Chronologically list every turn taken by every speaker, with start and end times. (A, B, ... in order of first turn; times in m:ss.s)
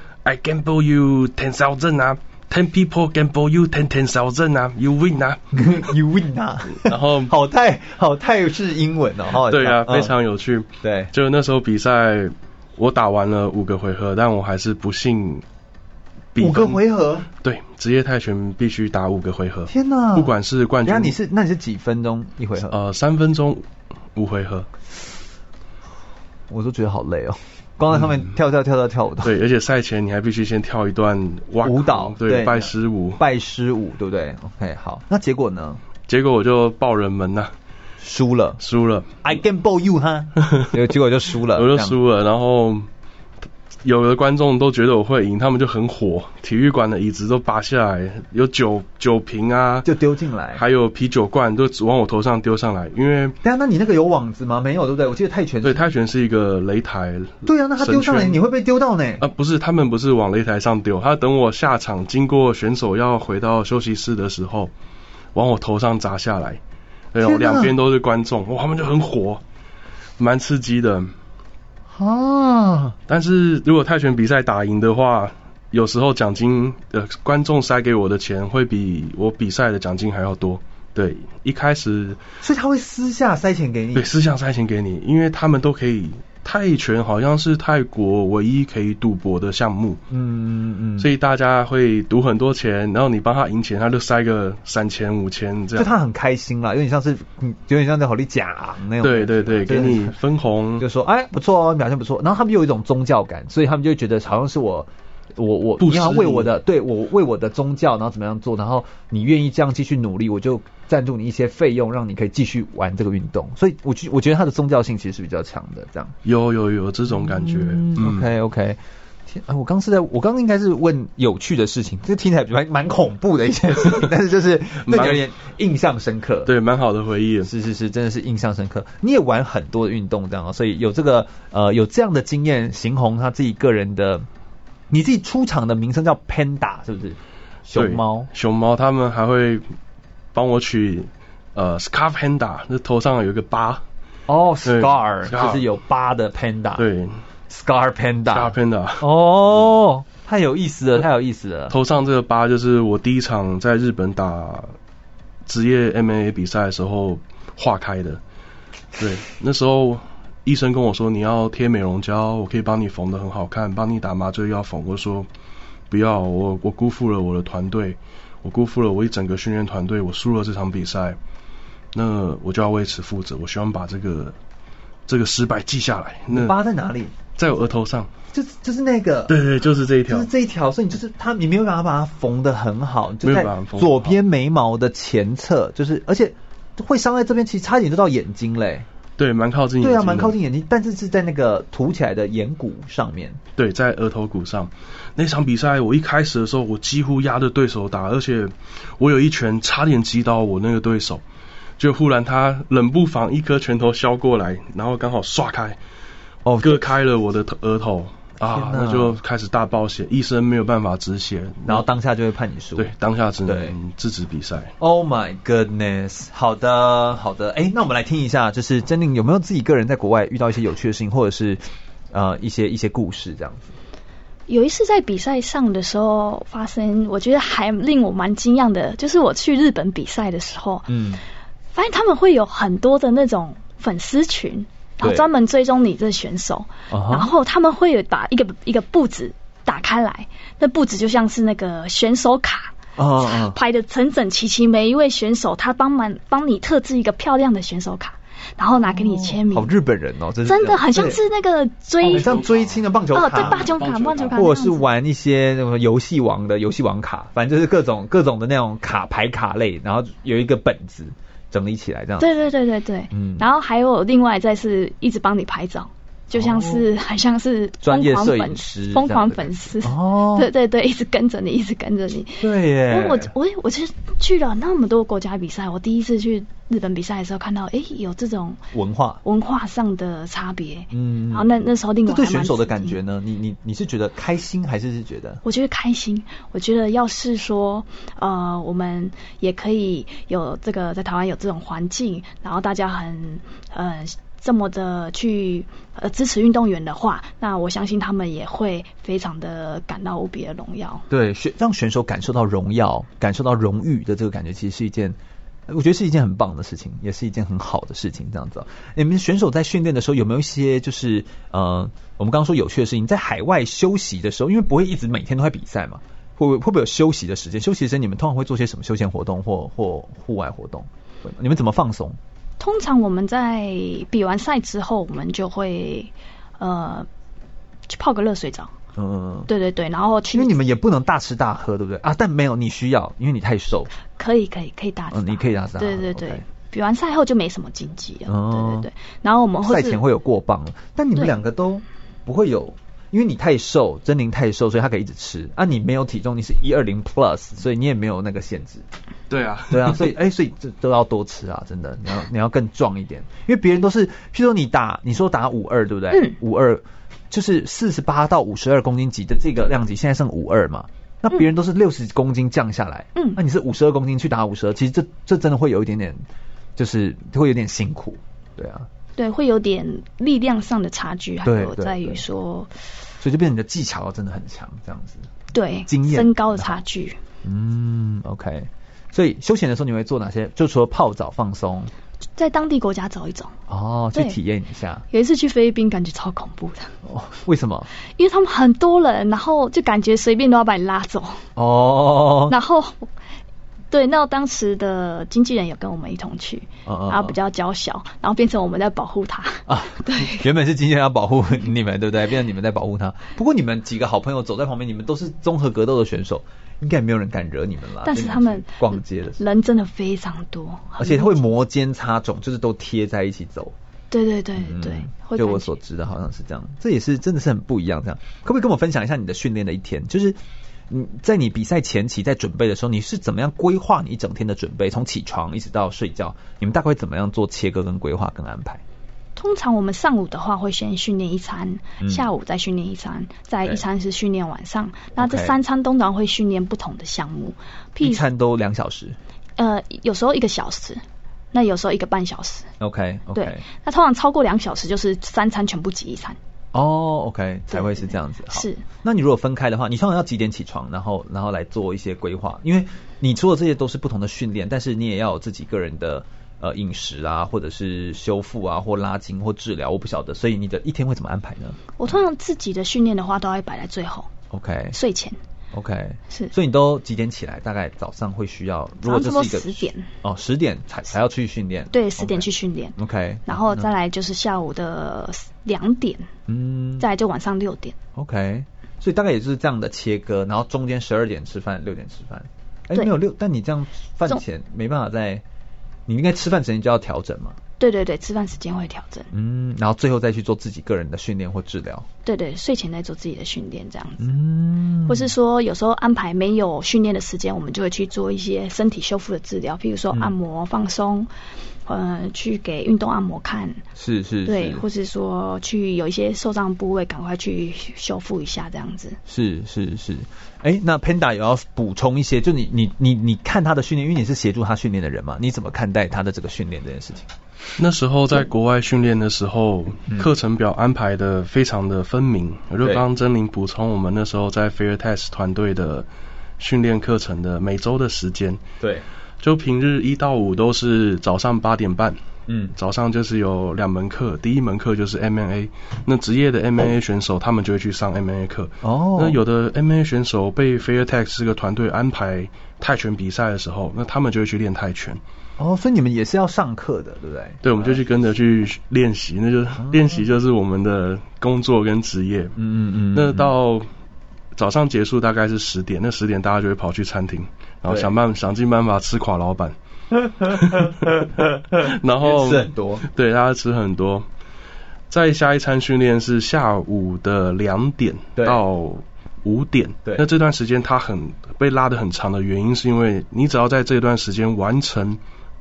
0:00.2-0:05.9 A
0:05.5-0:10.1 B
0:06.8-0:07.3 A
0:09.4-0:15.4 A
0:10.8-0:11.1 B
0:16.3-0:16.8 A
0:16.4-0:17.3 B
0:17.4-0:21.2 A
0:19.7-0:22.7 B
0:22.6-0:23.6 A
0:24.2-0:24.7 A
0:26.5-0:29.3 B
0:29.2-0:33.2 A
0:31.6-0:35.8 B
0:36.1-0:37.5 A
0:38.0-0:38.6 B
0:38.6-0:39.2 A
0:39.2-0:42.0 B
0:41.5-0:42.9 A
0:43.8-0:49.8 A
0:49.8-0:50.6 B
0:50.5-0:53.4 A
0:53.4-0:55.9 B
0:55.6-0:58.4 A
0:57.4-0:59.2 B
0:59.2-1:04.7 A
1:05.3-1:06.6 A
1:07.1-1:09.4 A
1:07.2-1:07.7 B
1:10.2-1:11.1 A
1:11.9-1:13.0 B
1:13.1-1:22.2 A
1:22.4-1:24.1 B
1:23.9-1:30.0 A
1:30.1-1:31.1 B
1:31.0-1:35.9 A
1:35.8-1:40.1 B
1:39.0-1:40.8 A
1:40.8-1:56.1 B
1:45.8-1:46.5 A
1:56.2-1:58.3 A
1:57.1-2:06.5 B
2:04.8-2:05.2 A
2:06.4-2:07.5 A
2:07.4-2:14.2 B
2:14.9-2:18.3 B
2:17.7-2:19.6 A
2:20.3-2:23.8 A
2:24.3-2:26.9 B
2:24.6-2:25.6 A
2:26.8-2:27.1 A
2:27.5-2:31.8 B
2:28.3-2:29.1 A
2:31.7-2:34.7 A
2:35.5-2:38.2 A
2:39.0-2:45.3 A
2:45.9-2:51.2 A
2:51.9-2:54.3 A
2:55.1-2:56.5 A
2:56.3-2:57.1 B
2:57.4-2:58.1 A
2:58.3-2:59.4 B
2:59.3-3:00.3 A
3:00.1-3:08.8 B
3:03.2-3:04.2 A
3:09.2-3:10.3 A
3:09.8-3:13.4 B
3:13.6-3:21.2 A
3:21.8-3:25.8 A
3:26.4-3:26.9 B
3:26.6-3:31.8 A
3:28.4-3:29.2 B
3:31.6-3:32.9 B
3:32.8-3:34.7 A
3:33.4-3:33.8 B
3:34.8-3:43.7 B
3:44.5-3:50.9 C
3:50.9-3:51.2 B
3:51.7-4:09.7 C
3:55.0-3:55.3 B
3:56.9-3:57.3 B
4:03.0-4:03.6 B
4:08.9-4:11.2 B
4:10.4-4:12.4 C
4:12.0-4:14.4 A
4:12.1-4:13.7 B
4:13.1-4:14.8 C
4:14.3-4:22.3 B
4:22.2-4:38.6 C
4:23.1-4:23.4 B
4:26.3-4:26.8 B
4:27.8-4:30.5 B
4:32.4-4:33.3 B
4:38.7-4:39.2 B
4:39.2-4:43.0 C
4:40.9-4:45.4 B
4:45.4-5:01.0 C
5:01.1-5:05.2 B
5:05.7-5:22.2 B
5:22.6-5:27.1 C
5:27.9-5:28.7 C
5:29.0-5:29.5 B
5:29.5-5:30.6 C
5:30.3-5:33.9 B
5:34.2-5:40.0 C
5:35.1-5:36.4 B
5:38.3-5:38.9 B
5:39.6-5:48.8 B
5:49.3-5:50.1 A
5:49.7-6:06.2 B
6:06.8-6:08.9 B
6:09.2-6:12.7 C
6:11.4-6:12.2 B
6:13.2-6:15.3 B
6:15.5-6:17.2 C
6:15.8-6:16.8 B
6:17.4-6:21.9 B
6:22.4-6:23.5 C
6:23.7-6:25.0 B
6:25.1-6:26.9 C
6:27.0-6:27.9 B
6:28.2-6:31.4 C
6:31.6-6:32.6 B
6:32.5-6:33.1 C
6:33.9-6:40.4 C
6:36.8-6:37.3 B
6:39.7-6:49.4 B
6:48.0-6:51.5 C
6:51.0-6:53.7 B
6:54.1-6:55.8 C
6:54.6-7:00.4 B
7:00.9-7:08.8 B
7:09.4-7:18.2 C
7:12.0-7:12.3 B
7:15.2-7:15.5 B
7:18.0-7:19.2 B
7:19.6-7:21.0 C
7:21.5-7:22.7 C
7:22.8-7:23.6 B
7:23.3-7:26.4 C
7:26.7-7:41.9 B
7:27.7-7:28.8 C
7:42.0-7:44.3 C
7:44.5-7:45.0 B
7:44.9-7:45.4 C
7:45.7-7:53.9 B
7:49.0-7:50.1 C
7:51.9-7:56.3 C
7:56.5-7:57.0 B
7:57.0-7:57.9 C
7:58.2-8:05.4 B
8:06.1-8:07.6 B
8:07.8-8:09.3 C
8:09.3-8:12.0 B
8:12.2-8:14.3 C
8:14.2-8:15.3 B
8:15.0-8:21.3 C
8:21.8-8:23.8 C
8:24.0-8:24.8 B
8:24.4-8:29.2 C
8:29.3-8:37.3 B
8:37.8-8:46.1 A
8:46.6-8:48.6 A
8:48.8-8:49.0 B
8:49.4-8:52.2 A
8:52.5-8:52.7 B
8:52.8-9:05.2 A
8:58.8-8:59.4 B
9:05.6-9:08.0 B
9:07.6-9:12.6 A
9:09.8-9:10.2 B
9:12.6-9:13.5 B
9:13.1-9:13.9 A
9:14.6-9:19.7 A
9:17.9-9:18.1 B
9:20.1-9:23.0 B
9:20.5-9:20.9 A
9:21.8-9:24.2 A
9:25.1-9:35.2 A